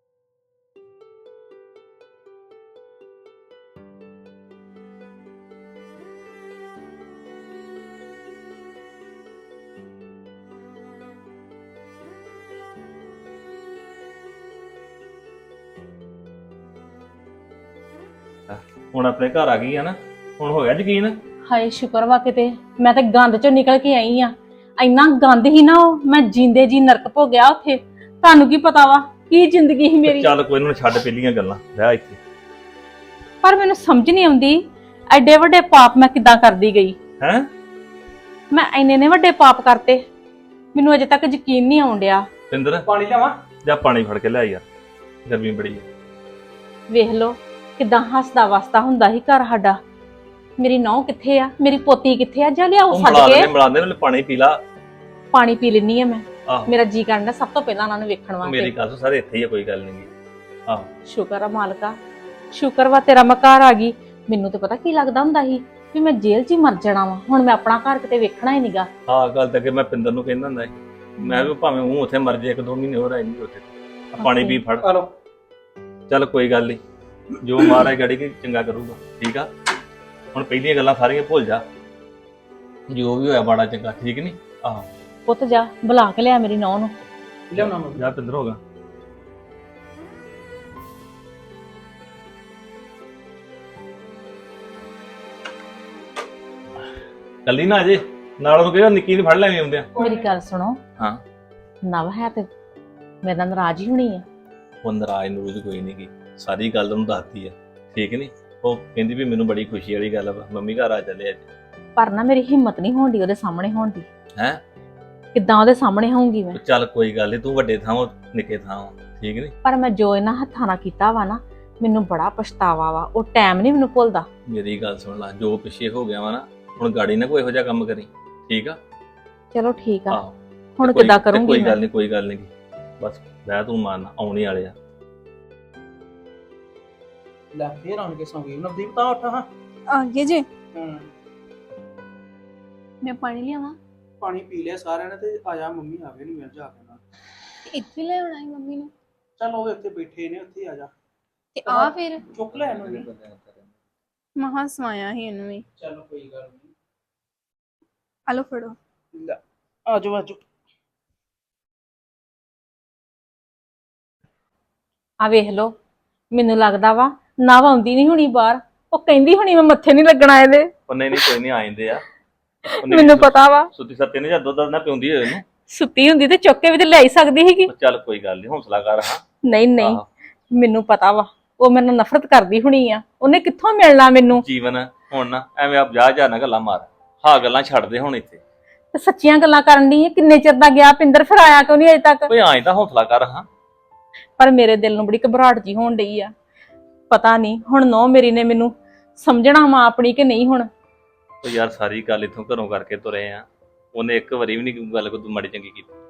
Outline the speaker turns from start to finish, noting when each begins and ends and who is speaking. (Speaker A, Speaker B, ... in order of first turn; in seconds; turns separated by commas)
Speaker A: 18.5-21.1, Speaker B: 21.5-30.3, Speaker A: 30.1-32.2, Speaker B: 33.4-37.0, Speaker A: 37.2-37.5, Speaker B: 38.5-40.0, Speaker B: 40.8-42.2, Speaker A: 42.5-42.9, Speaker C: 42.9-43.4, Speaker A: 43.6-44.6, Speaker A: 45.2-45.8, Speaker B: 46.9-49.8, Speaker B: 50.6-53.5, Speaker A: 52.9-54.6, Speaker B: 55.3-58.7, Speaker A: 56.5-56.7, Speaker A: 58.4-60.1, Speaker B: 61.0-62.0, Speaker B: 62.5-68.9, Speaker A: 69.1-74.9, Speaker B: 71.2-71.5, Speaker B: 74.2-74.6, Speaker C: 74.8-75.1, Speaker A: 76.1-76.8, Speaker A: 77.4-79.5, Speaker A: 80.3-81.6, Speaker A: 82.9-84.9, Speaker B: 85.2-86.9, Speaker C: 87.5-88.1, Speaker A: 87.5-88.6, Speaker A: 97.5-99.9, Speaker C: 99.9-100.3, Speaker B: 100.0-100.8, Speaker B: 101.8-102.5, Speaker B: 103.2-104.2, Speaker A: 104.8-111.4, Speaker B: 112.0-114.0, Speaker B: 115.3-116.6, Speaker A: 116.5-119.5, Speaker B: 119.6-124.2, Speaker A: 124.5-128.8, Speaker B: 129.5-130.2, Speaker A: 130.1-134.8, Speaker B: 130.8-131.8, Speaker C: 137.5-139.5, Speaker D: 139.9-140.5, Speaker C: 140.7-141.1, Speaker D: 143.0-143.8, Speaker C: 144.2-147.0, Speaker D: 147.7-148.9, Speaker C: 149.4-150.9, Speaker D: 151.5-152.3, Speaker C: 151.7-153.1, Speaker A: 152.5-153.7, Speaker D: 154.4-155.6, Speaker C: 155.8-156.7, Speaker D: 158.3-158.8, Speaker C: 159.1-160.4, Speaker B: 165.2-165.7, Speaker B: 166.3-170.7, Speaker A: 170.9-172.0, Speaker B: 172.8-173.7, Speaker A: 172.8-175.4, Speaker B: 175.7-177.7, Speaker A: 177.7-179.2, Speaker B: 179.4-180.0, Speaker A: 179.8-180.0, Speaker B: 180.5-184.4, Speaker A: 184.3-188.4, Speaker B: 188.9-192.3, Speaker A: 192.3-193.5, Speaker B: 194.4-196.3, Speaker B: 197.1-200.7, Speaker A: 201.4-205.9